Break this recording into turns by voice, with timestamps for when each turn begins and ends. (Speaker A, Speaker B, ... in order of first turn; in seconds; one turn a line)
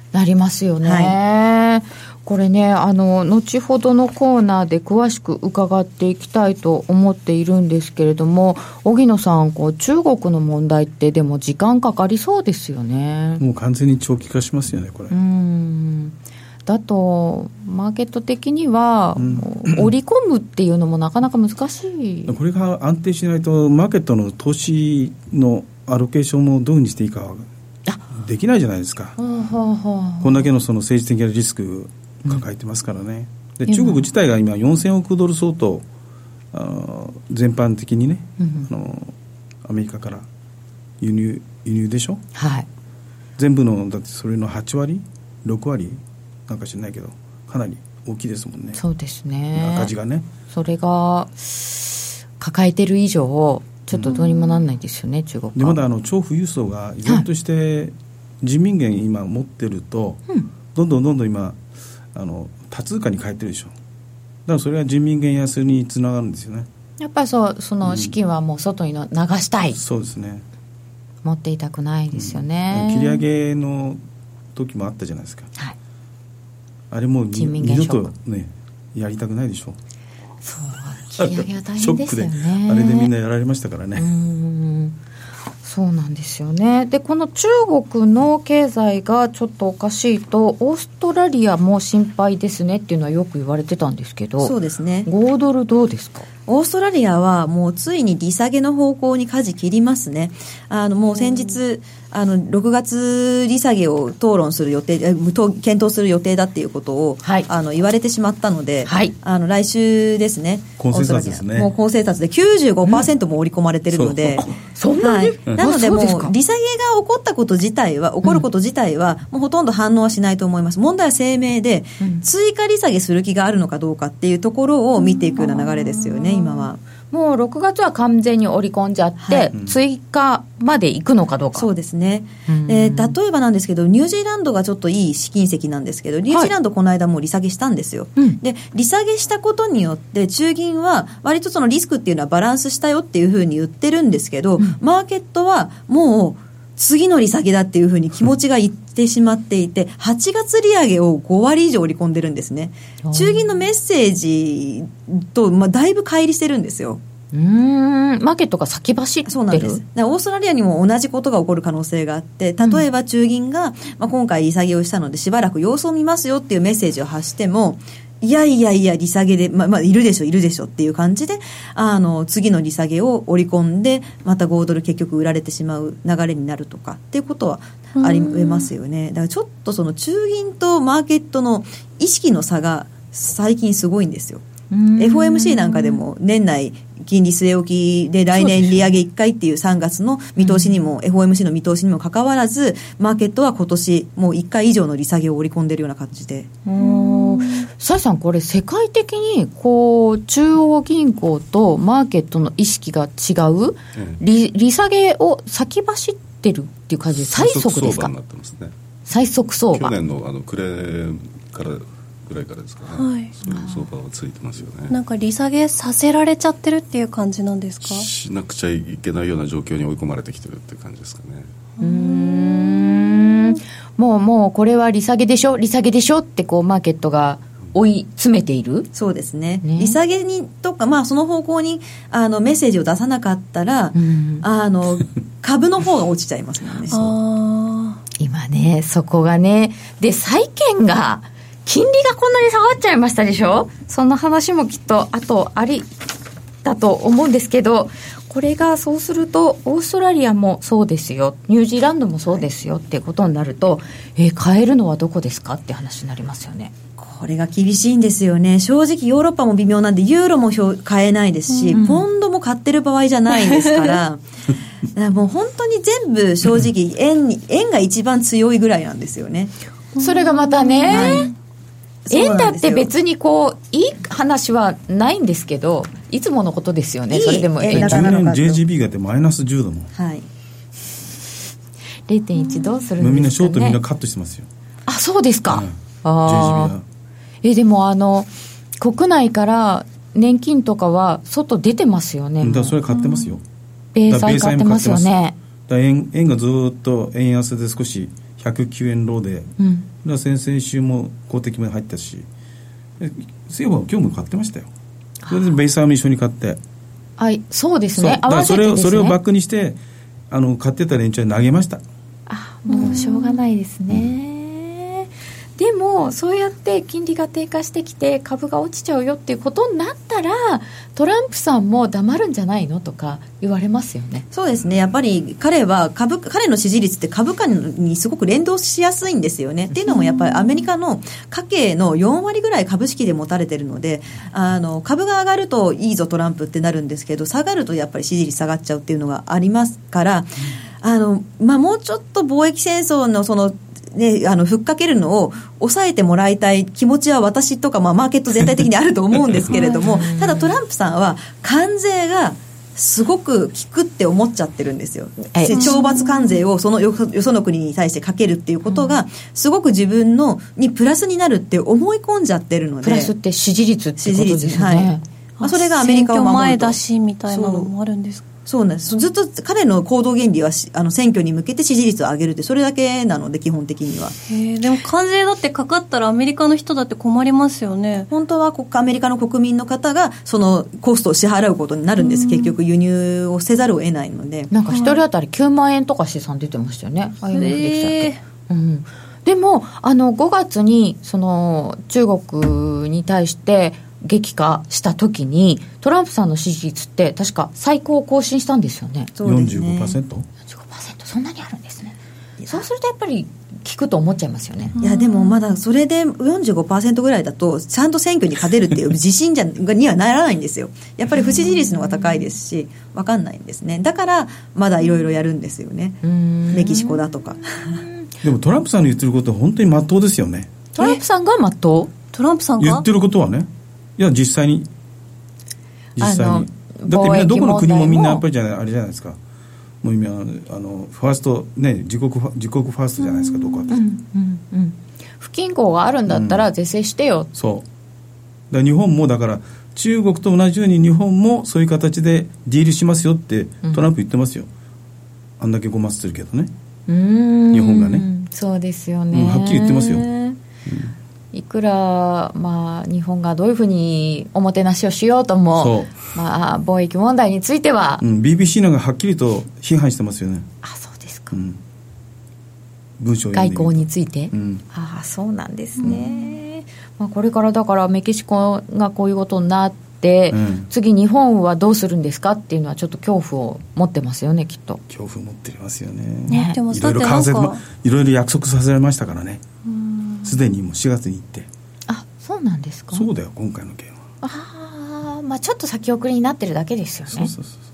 Speaker A: 0.1-13.4
Speaker B: 0.8-1.2
Speaker C: 13.4-15.1
Speaker A: 15.1-22.3
Speaker C: 19.2-19.9
Speaker C: 22.3-27.5
Speaker C: 28.1-29.2
Speaker A: 29.2-30.5
Speaker C: 30.2-35.9
Speaker A: 33.7-34.1
Speaker C: 36.5-40.3
Speaker A: 38.4-38.7
Speaker C: 41.0-42.2
Speaker A: 42.4-42.7
Speaker C: 43.4-48.8
Speaker A: 48.8-49.9
Speaker C: 49.5-50.3
Speaker A: 50.5-55.8
Speaker D: 54.1-54.6
Speaker C: 55.5-60.2
Speaker C: 60.7-61.6
Speaker C: 62.1-63.7
Speaker C: 64.5-66.7
Speaker A: 67.0-69.8
Speaker C: 67.8-68.2
Speaker C: 69.8-70.5
Speaker A: 71.2-73.2
Speaker C: 72.1-74.0
Speaker C: 74.5-75.5
Speaker C: 76.9-79.8
Speaker A: 77.3-78.1
Speaker A: 80.4-83.1
Speaker C: 81.2-84.1
Speaker A: 84.0-85.0
Speaker A: 85.6-94.5
Speaker B: 94.4-95.1
Speaker A: 95.1-96.3
Speaker B: 96.5-114.5
Speaker A: 108.9-109.1
Speaker C: 110.8-111.7
Speaker C: 113.9-114.5
Speaker A: 114.6-116.3
Speaker B: 115.0-126.8
Speaker A: 122.0-122.2
Speaker A: 125.4-131.7
Speaker B: 129.2-129.5
Speaker B: 131.6-157.0
Speaker A: 132.5-133.1
Speaker A: 153.0-153.5
Speaker A: 157.3-159.8
Speaker B: 159.3-184.4
Speaker A: 162.6-162.9
Speaker D: 178.0-178.7
Speaker A: 184.7-186.0
Speaker B: 185.0-196.5
Speaker A: 188.3-189.0
Speaker A: 190.4-190.8
Speaker A: 196.7-208.1
Speaker D: 196.8-197.7
Speaker E: 207.2-208.7
Speaker A: 209.1-209.9
Speaker E: 209.7-215.0
Speaker D: 212.9-213.3
Speaker A: 213.5-213.9
Speaker D: 214.9-218.1
Speaker E: 217.8-221.5
Speaker D: 221.8-223.5
Speaker A: 221.8-228.9
Speaker B: 228.9-237.1
Speaker A: 229.6-230.0
Speaker A: 233.9-234.5
Speaker D: 236.9-238.0
Speaker A: 238.2-245.9
Speaker A: 246.6-256.7
Speaker B: 257.0-264.2
Speaker D: 261.5-261.9
Speaker A: 261.7-262.0
Speaker D: 263.5-264.0
Speaker B: 264.9-269.5
Speaker D: 270.0-271.3
Speaker A: 270.0-271.3
Speaker B: 270.9-271.3
Speaker B: 272.1-272.9
Speaker A: 272.1-278.2
Speaker B: 277.1-278.6
Speaker C: 277.7-279.9
Speaker B: 279.9-280.3
Speaker A: 282.1-283.8
Speaker C: 283.0-284.5
Speaker A: 284.9-286.8
Speaker C: 285.5-286.8
Speaker A: 287.4-292.9
Speaker C: 292.4-293.4
Speaker A: 293.9-295.4
Speaker C: 294.1-295.1
Speaker C: 295.7-302.3
Speaker A: 299.6-299.9
Speaker C: 303.0-304.7
Speaker A: 305.2-305.6
Speaker C: 305.3-306.6
Speaker A: 307.2-309.2
Speaker C: 307.9-309.8
Speaker C: 310.3-311.8
Speaker A: 312.3-324.3
Speaker D: 312.7-313.1
Speaker B: 324.3-363.1
Speaker A: 349.5-350.6
Speaker A: 355.3-356.0
Speaker D: 355.5-356.4
Speaker A: 358.7-359.0
Speaker A: 362.8-365.1
Speaker B: 364.0-367.7
Speaker D: 365.4-368.2
Speaker B: 368.5-374.2
Speaker D: 374.3-378.1
Speaker B: 378.1-384.5
Speaker D: 382.0-382.6
Speaker A: 384.5-399.1
Speaker D: 384.7-385.0
Speaker D: 387.3-388.2
Speaker B: 399.2-400.0
Speaker C: 399.2-400.3
Speaker A: 400.5-402.0
Speaker A: 402.5-404.8
Speaker D: 404.8-405.4
Speaker B: 404.8-417.8
Speaker A: 416.0-418.1
Speaker C: 418.2-420.5
Speaker A: 420.8-421.9
Speaker D: 422.1-422.9
Speaker C: 422.6-424.7
Speaker C: 426.0-429.2
Speaker A: 426.0-428.2
Speaker C: 429.8-433.8
Speaker A: 433.1-437.3
Speaker C: 436.1-436.5
Speaker C: 437.3-437.7
Speaker C: 438.5-444.5
Speaker A: 443.6-443.9
Speaker C: 445.4-446.5
Speaker A: 446.9-450.4
Speaker C: 447.5-448.1
Speaker C: 449.1-450.1
Speaker C: 450.7-450.9
Speaker A: 451.3-458.0
Speaker C: 455.6-455.9
Speaker C: 458.0-460.5
Speaker A: 460.6-461.4
Speaker C: 461.3-461.6
Speaker C: 463.0-464.6
Speaker A: 463.3-474.8
Speaker C: 470.3-470.7
Speaker C: 474.9-479.4
Speaker D: 476.3-477.6
Speaker A: 476.3-476.6
Speaker D: 479.7-480.3
Speaker C: 480.2-481.5
Speaker A: 481.9-483.1
Speaker C: 482.9-484.0
Speaker A: 484.2-487.3
Speaker C: 487.1-487.5